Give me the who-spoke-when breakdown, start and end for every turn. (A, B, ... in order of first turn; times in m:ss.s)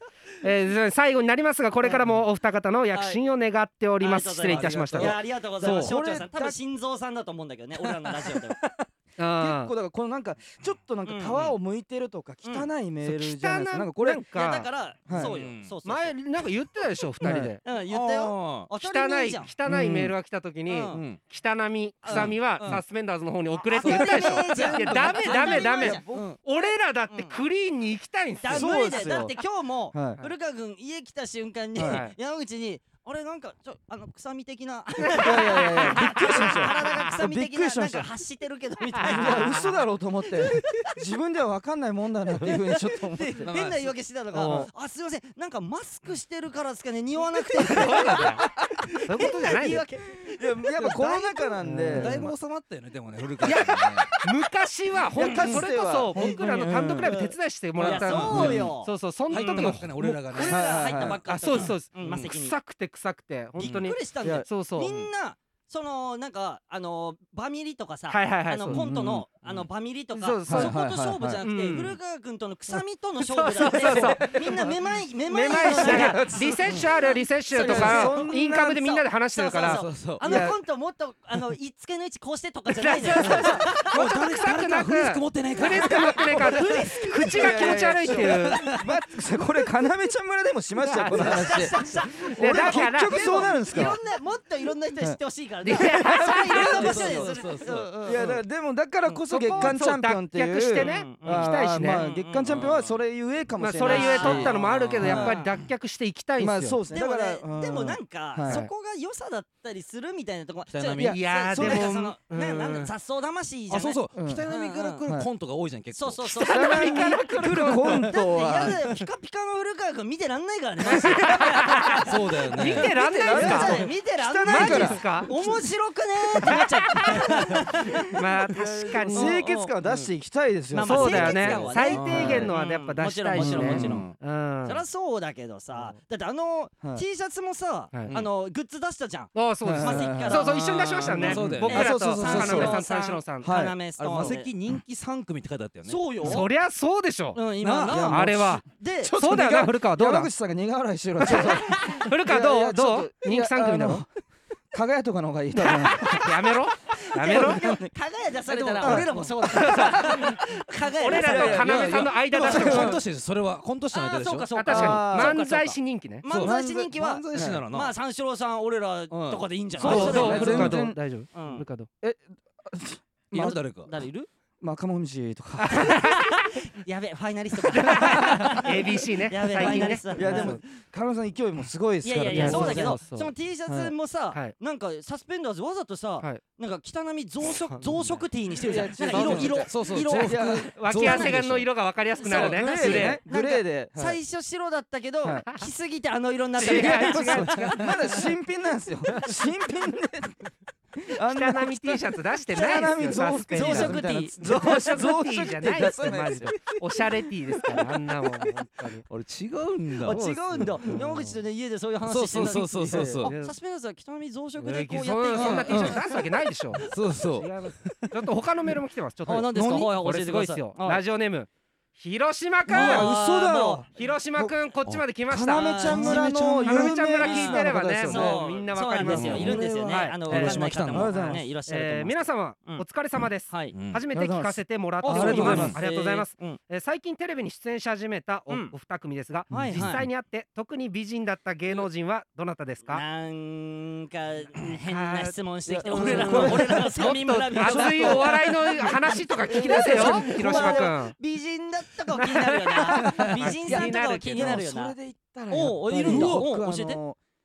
0:00.4-0:05.9 A
0:02.9-0:03.2 B
0:04.0-0:08.6 B
0:04.5-0:06.6 C
0:08.2-0:14.2 C
0:09.2-0:09.7 A
0:11.0-0:11.6 B
0:12.4-0:12.7 B
0:13.0-0:14.7 A
0:14.3-0:16.2 B
0:15.1-0:15.3 C
0:15.1-0:15.8 D
0:15.8-0:17.6 A
0:17.2-0:17.6 C
0:17.6-0:19.5 B
0:17.7-0:18.7 D
0:18.8-0:28.7 A
0:19.7-0:20.1 C
0:20.7-0:21.0 B
0:20.9-0:21.2 D
0:22.0-0:22.8 B
0:22.1-0:22.8 D
0:23.6-0:27.4 B
0:23.8-0:25.3 D
0:24.5-0:26.3 C
0:26.0-0:26.4 D
0:28.4-0:39.6 B
0:28.4-0:29.4 C
0:29.9-0:30.2 C
0:31.8-0:32.0 C
0:31.8-0:32.2 A
0:35.2-0:38.1 C
0:36.3-0:37.0 A
0:39.0-0:39.7 A
0:39.0-0:43.4 C
0:40.5-0:40.9 B
0:42.4-0:48.5 B
0:43.4-0:44.0 D
0:44.3-0:44.7 A
0:47.6-0:49.8 A
0:47.7-0:48.8 C
0:49.1-0:52.2 B
0:50.2-0:52.4 C
0:51.6-0:52.2 A
0:52.0-0:54.1 D
0:53.4-0:59.9 A
0:55.1-0:57.2 C
0:55.2-0:55.6 B
0:56.1-0:56.5 B
0:57.0-1:02.6 B
0:57.8-0:58.8 D
0:58.0-0:58.7 C
0:59.3-1:01.1 D
1:00.0-1:01.6 C
1:01.3-1:05.1 A
1:01.6-1:02.2 D
1:03.6-1:18.4 B
1:03.6-1:03.9 D
1:08.1-1:08.8 A
1:08.7-1:09.2 C
1:10.2-1:10.8 A
1:10.4-1:11.4 C
1:11.4-1:12.0 A
1:13.2-1:14.3 A
1:13.6-1:14.8 C
1:15.3-1:19.8 A
1:15.5-1:16.8 C
1:17.5-1:19.0 C
1:19.3-1:24.0 B
1:19.6-1:20.5 D
1:20.2-1:20.6 C
1:22.8-1:28.7 A
1:23.4-1:26.2 D
1:25.6-1:28.3 B
1:25.8-1:34.0 C
1:28.5-1:28.8 D
1:30.9-1:33.5 A
1:30.9-1:38.4 B
1:35.6-1:37.1 A
1:35.7-1:37.2 C
1:36.7-1:38.2 D
1:38.0-1:45.3 C
1:39.3-1:42.0 A
1:40.8-1:42.6 B
1:42.4-1:43.0 D
1:43.6-1:46.8 A
1:43.8-1:45.5 B
1:44.2-1:45.2 D
1:46.4-1:48.7 C
1:46.9-1:55.1 B
1:50.7-1:51.2 D
1:51.0-1:51.9 C
1:51.0-1:52.9 A
1:53.7-1:56.5 D
1:54.1-1:54.5 C
1:55.9-2:09.8 B
1:56.4-1:58.1 A
1:56.4-1:58.8 C
2:00.9-2:03.9 A
2:02.0-2:03.0 D
2:02.9-2:05.6 C
2:04.5-2:05.3 A
2:06.4-2:09.4 A
2:07.5-2:08.0 C
2:08.5-2:12.5 C
2:10.7-2:14.1 B
2:10.8-2:14.8 A
2:11.9-2:12.5 D
2:13.4-2:13.9 C
2:13.5-2:14.2 D
2:14.6-2:24.5 B
2:19.4-2:23.5 A
2:19.6-2:20.5 C
2:20.7-2:22.8 D
2:21.1-2:22.8 C
2:23.4-2:24.3 C
2:24.0-2:26.1 D
2:25.8-2:26.5 B
2:26.2-2:27.4 A
2:27.3-2:29.2 B
2:27.6-2:28.3 D
2:27.9-2:34.1 C
2:28.1-2:30.3 A
2:31.2-2:34.0 A
2:31.3-2:31.8 B
2:34.7-2:36.6 C
2:35.6-2:37.7 A
2:36.9-2:41.9 B
2:37.2-2:37.9 C
2:38.5-2:39.3 D
2:38.8-2:40.4 C
2:39.4-2:40.4 A
2:41.0-2:43.0 A
2:41.2-2:43.0 C
2:41.6-2:44.6 D
2:42.5-2:42.9 B
2:43.9-2:50.8 B
2:44.6-2:46.2 A
2:44.7-2:45.4 C
2:46.3-2:48.0 D
2:46.3-2:47.6 C
2:49.1-2:50.7 D
2:49.8-2:51.0 C
2:49.8-2:51.9 A
2:51.3-2:51.7 B
2:52.0-2:53.6 C
2:53.3-2:53.9 D
2:53.4-2:54.3 B
2:54.6-2:56.1 C
2:55.6-2:56.6 A
2:56.0-3:00.6 B
2:57.7-3:00.6 A
2:57.8-2:58.6 C
2:59.6-3:03.0 C
3:02.0-3:11.4 B
3:02.3-3:03.3 A
3:03.7-3:04.0 C
3:07.7-3:08.0 A
3:08.6-3:11.1 C
3:09.1-3:09.6 A
3:09.2-3:11.7 D
3:10.7-3:13.2 A
3:12.2-3:18.2 B
3:12.3-3:14.2 C
3:16.6-3:18.0 A
3:16.6-3:26.7 C
3:21.2-3:29.0 A
3:22.6-3:22.9 B
3:23.5-3:24.4 B
3:29.1-3:30.2 D
3:30.0-3:36.2 B
3:30.0-3:30.8 C
3:30.2-3:31.4 A
3:32.0-3:33.3 D
3:32.8-3:33.2 C
3:33.2-3:33.6 A
3:34.6-3:36.8 A
3:35.4-3:36.0 D
3:36.8-3:38.1 D
3:37.4-3:43.2 A
3:39.2-3:41.0 B
3:42.7-3:43.8 B
3:42.7-3:44.6 C
3:43.9-3:50.6 A
3:45.3-3:48.5 C
3:45.5-3:52.8 B
3:45.9-3:46.5 D
3:49.0-3:51.5 C
3:49.1-3:49.6 D
3:50.3-3:51.2 D
3:51.2-4:03.0 A
3:53.5-3:53.8 B
3:53.7-3:54.0 D
3:54.1-3:55.8 C
3:55.0-3:56.6 B
3:55.1-3:55.8 D
3:58.5-3:58.7 B
3:59.5-3:59.8 C
3:59.5-4:00.0 D
3:59.5-4:00.0 B
4:02.9-4:15.0 B
4:04.9-4:11.2 A
4:05.7-4:10.9 C
4:12.2-4:14.6 A
4:13.1-4:17.2 C
4:15.5-4:17.0 B
4:16.0-4:16.5 D